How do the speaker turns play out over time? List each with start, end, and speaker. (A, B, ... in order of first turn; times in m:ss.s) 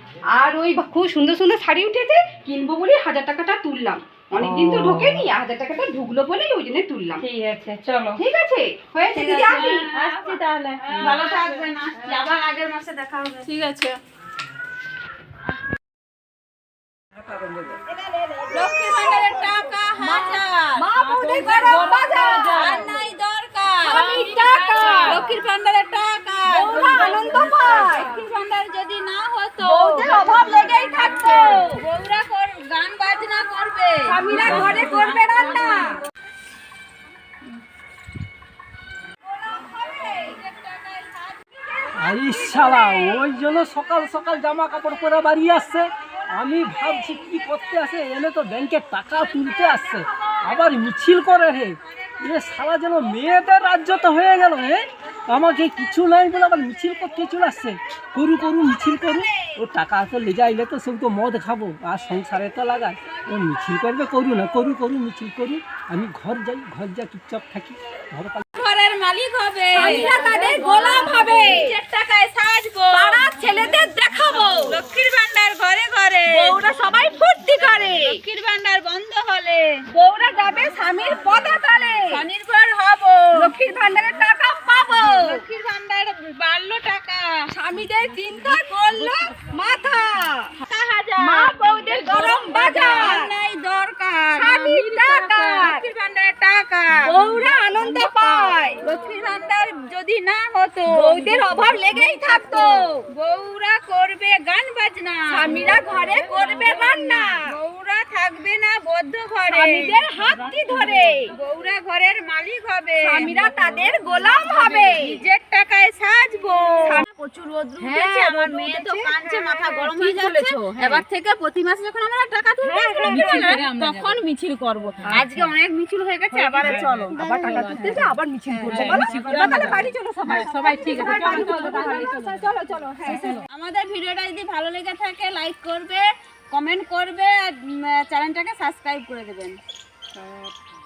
0:00.3-0:07.2 A
0:04.4-0:05.3 B
0:07.2-0:08.2 B
0:08.2-0:09.9 A
0:09.1-0:13.5 C
0:09.2-0:12.2 D
0:13.4-0:14.0 D
0:17.2-0:17.7 C
0:17.9-0:19.4 A
0:18.5-0:36.0 C
0:20.0-0:23.0 A
0:23.9-0:25.3 A
0:23.9-0:25.3 B
0:26.3-0:26.8 B
0:26.6-0:28.2 A
0:29.6-0:31.8 A
0:29.8-0:30.2 B
0:34.1-0:36.0 A
0:34.4-0:35.0 E
0:39.5-0:40.4 A
0:42.0-1:08.4 E
1:08.5-1:13.3 C
1:09.7-1:11.8 A
1:12.9-1:14.8 A
1:14.6-1:16.6 C
1:16.3-1:18.2 A
1:18.0-1:19.8 C
1:19.9-1:22.2 A
1:22.1-1:23.5 C
1:23.4-1:25.4 A
1:24.9-1:27.5 C
1:27.5-1:30.5 A
1:28.4-1:29.3 C
1:30.6-1:50.0 C
1:31.2-1:33.3 A
1:34.4-1:35.8 A
1:36.9-1:38.8 A
1:40.9-1:43.0 A
1:45.3-1:47.6 A
1:49.5-1:51.3 A
1:51.3-1:53.5 C
1:53.0-1:55.2 A
1:54.4-2:08.0 C
1:57.8-2:01.0 A
2:02.6-2:03.8 A
2:03.1-2:03.6 D
2:05.0-2:05.5 A
2:06.3-2:13.4 A
2:08.5-2:12.3 C
2:08.8-2:09.2 D
2:10.3-2:12.3 D
2:13.1-2:19.6 C
2:20.1-2:20.5 A